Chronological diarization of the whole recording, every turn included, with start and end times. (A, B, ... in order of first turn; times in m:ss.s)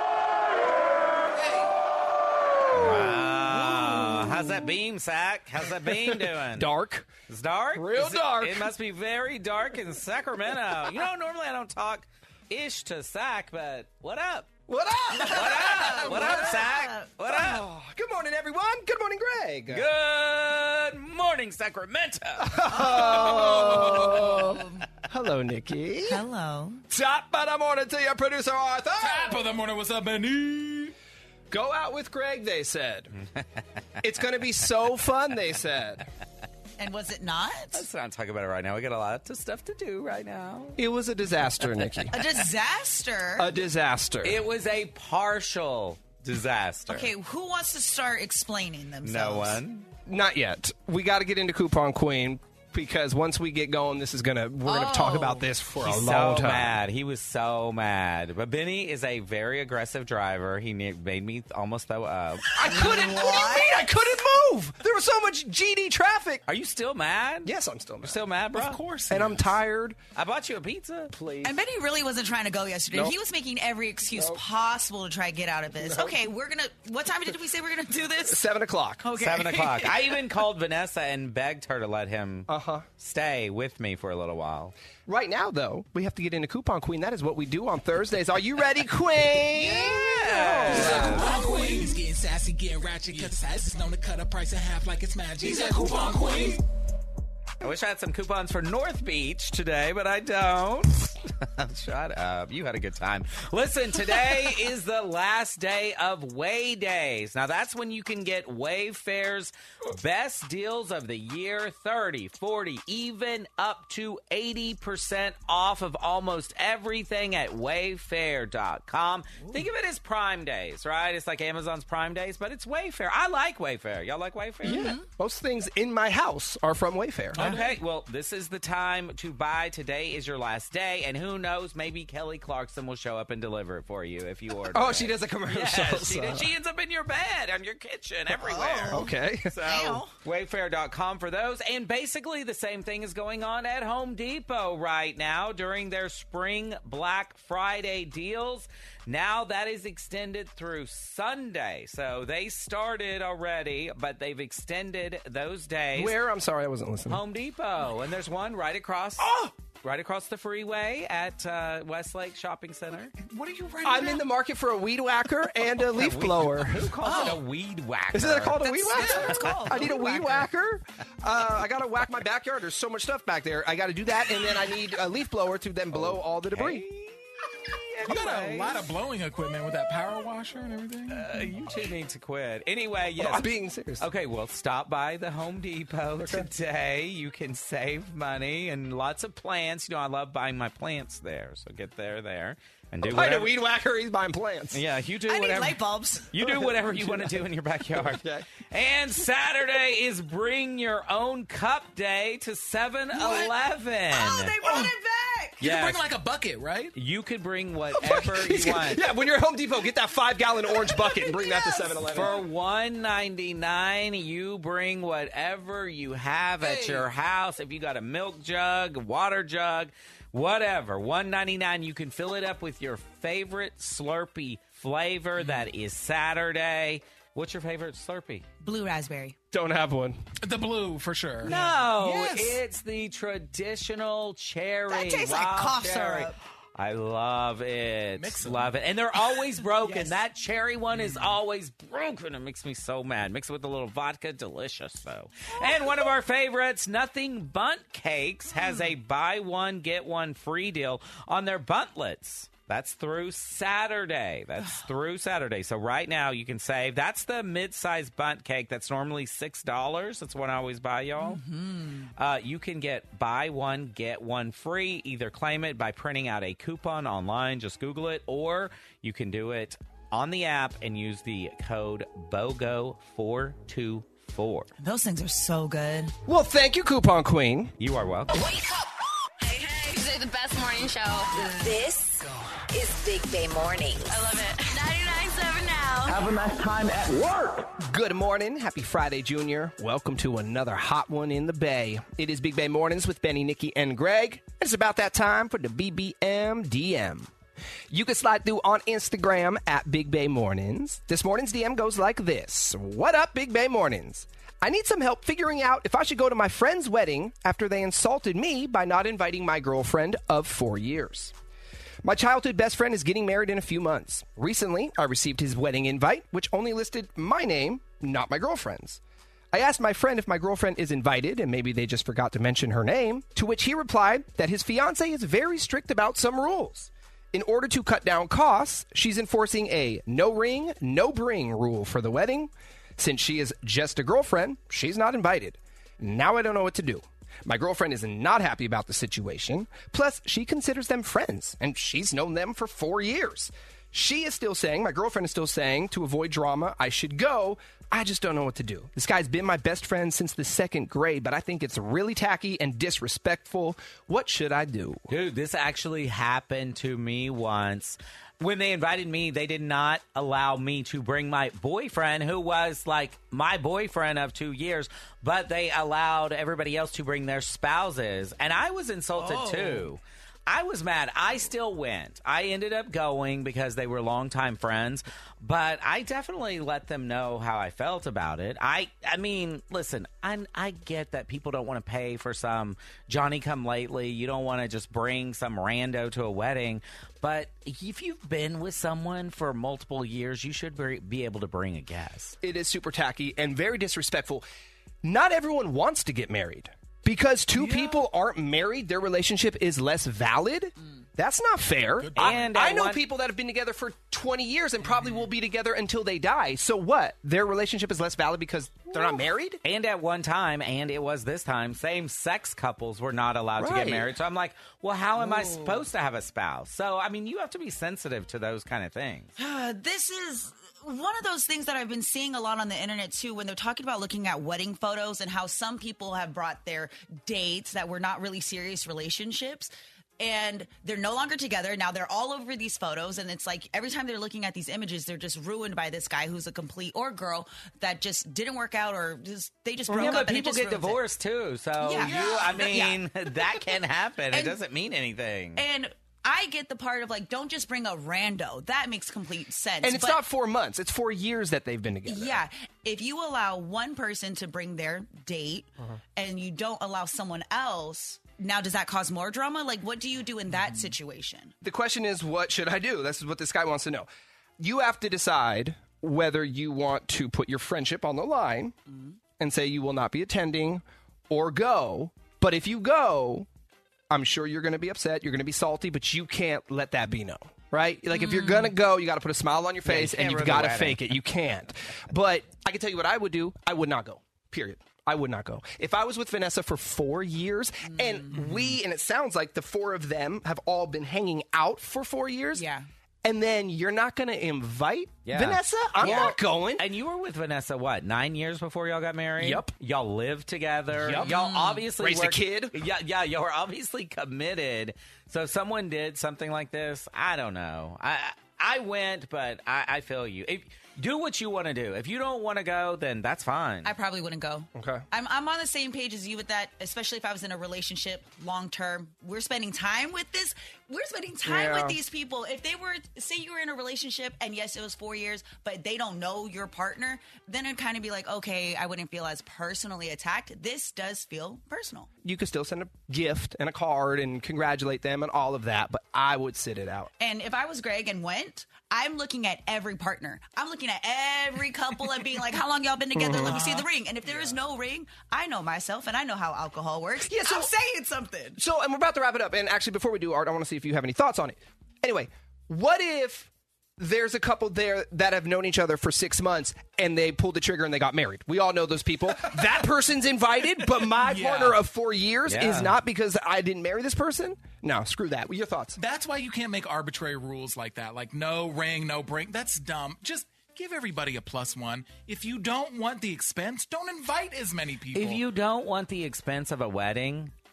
0:02.7-0:04.4 A
0:02.7-0:06.7 B
0:06.6-0:07.1 A
0:07.3-0:14.5 B
0:07.8-0:08.7 A
0:14.7-0:16.7 A
0:15.1-0:17.1 C
0:15.2-0:17.6 B
0:17.3-0:19.8 A
0:19.7-0:22.6 B
0:22.4-0:26.2 A
0:22.7-0:24.8 C
0:23.3-0:24.1 D
0:26.1-0:26.8 C
0:26.9-0:29.5 A
0:29.0-0:31.0 D
0:31.5-0:33.1 A
0:34.0-0:36.0 A
0:36.8-0:37.8 C
0:37.7-0:40.8 B
0:40.8-0:42.2 A
0:42.1-0:43.5 C
0:43.4-0:44.4 A
0:44.2-0:47.1 B
0:46.9-0:49.6 C
0:49.0-0:49.9 B
0:50.1-0:56.8 A
0:54.7-0:55.4 C
0:55.8-1:02.6 B
1:02.6-1:06.4 A
1:02.6-1:03.8 C
1:06.5-1:08.8 B
1:07.4-1:08.2 A
1:08.5-1:09.5 D
1:09.1-1:10.0 A
1:10.2-1:11.1 B
1:11.4-1:18.4 C
1:15.8-1:16.1 A
1:18.3-1:19.1 A
1:19.0-1:20.2 C
1:19.2-1:22.5 B
1:22.5-1:22.9 A
1:23.0-1:24.7 B
1:25.1-1:31.3 A
1:29.5-1:31.4 B
1:30.6-1:36.6 D
1:37.6-2:04.9 B
2:04.6-2:07.6 A
2:07.4-2:36.2 B
2:07.4-2:07.7 D
2:14.7-2:16.5 A
2:18.3-2:20.2 C
2:18.9-2:19.5 A
2:36.0-2:37.2 A
2:37.1-2:39.2 B
2:39.8-2:43.1 B
2:43.2-2:44.2 D
2:43.8-2:46.9 A
2:45.7-2:49.8 B
2:47.1-2:47.4 D
2:48.1-2:56.8 A
2:48.7-2:50.5 C
2:55.9-2:57.2 B
2:57.7-2:58.9 B
2:58.0-3:01.3 D
3:01.1-3:03.5 B
3:03.2-3:04.1 A
3:04.0-3:13.5 B
3:06.2-3:06.5 A
3:13.0-3:14.8 A
3:14.7-3:24.6 B
3:15.3-3:16.3 C
3:16.4-3:17.4 A
3:17.9-3:18.5 A
3:23.2-3:23.5 C
3:24.1-3:25.6 C
3:24.6-3:24.9 D
3:25.6-3:27.0 D
3:25.6-3:26.0 B
3:27.0-3:29.0 B
3:28.0-3:32.4 A
3:31.2-3:31.9 C
3:32.1-3:48.4 B
3:36.6-3:37.1 D
3:48.6-3:49.4 C
3:49.5-3:50.2 A
3:50.4-3:52.6 D
3:51.4-4:21.4 B
3:54.9-3:56.4 C
3:58.2-3:58.8 D
3:59.8-4:00.1 C
4:01.0-4:01.3 D
4:21.2-4:22.1 C
4:22.2-4:34.7 B
4:34.8-4:36.1 C
4:36.3-4:37.7 A
4:37.8-4:38.4 B
4:38.3-4:38.8 E
4:39.4-4:46.1 E
4:44.2-4:46.3 F
4:47.4-4:57.3 A
4:57.9-5:11.3 A
5:12.0-5:19.0 A
5:19.5-5:55.0 A
5:55.1-6:32.4 B
6:09.2-6:09.9 C
6:32.4-6:34.5 A
6:35.0-6:49.6 A
6:37.6-6:38.0 D
6:42.0-6:42.5 D
6:42.2-6:43.0 B
6:49.6-6:59.3 B
6:53.6-6:54.1 A
6:55.2-6:55.8 A
6:59.4-7:21.0 C
7:19.9-7:25.6 B
7:21.8-7:23.0 C
7:22.0-7:22.7 D
7:24.3-7:24.6 C
7:25.6-7:30.2 C
7:29.8-7:32.4 A
7:32.1-7:41.5 C
7:41.6-7:44.1 A
7:44.6-7:48.8 A
7:49.4-7:53.5 A
7:54.1-8:12.6 A
7:58.1-7:58.7 C
7:59.8-8:01.1 B
8:07.8-8:08.4 C
8:12.5-8:12.9 C
8:13.2-8:16.9 A
8:15.3-8:33.9 B
8:16.0-8:16.3 C
8:19.4-8:19.7 A
8:20.9-8:21.4 A
8:21.2-8:21.8 C
8:22.0-8:22.8 A
8:33.8-8:52.1 C
8:34.7-8:35.0 A
8:41.4-8:42.0 A
8:52.2-8:57.1 A
8:57.2-9:08.6 C
9:03.2-9:03.6 A
9:03.3-9:03.9 D
9:07.2-9:07.7 A
9:08.6-9:26.0 A
9:21.2-9:21.8 D
9:22.5-9:23.0 B
9:26.0-9:35.4 D
9:35.1-9:37.5 B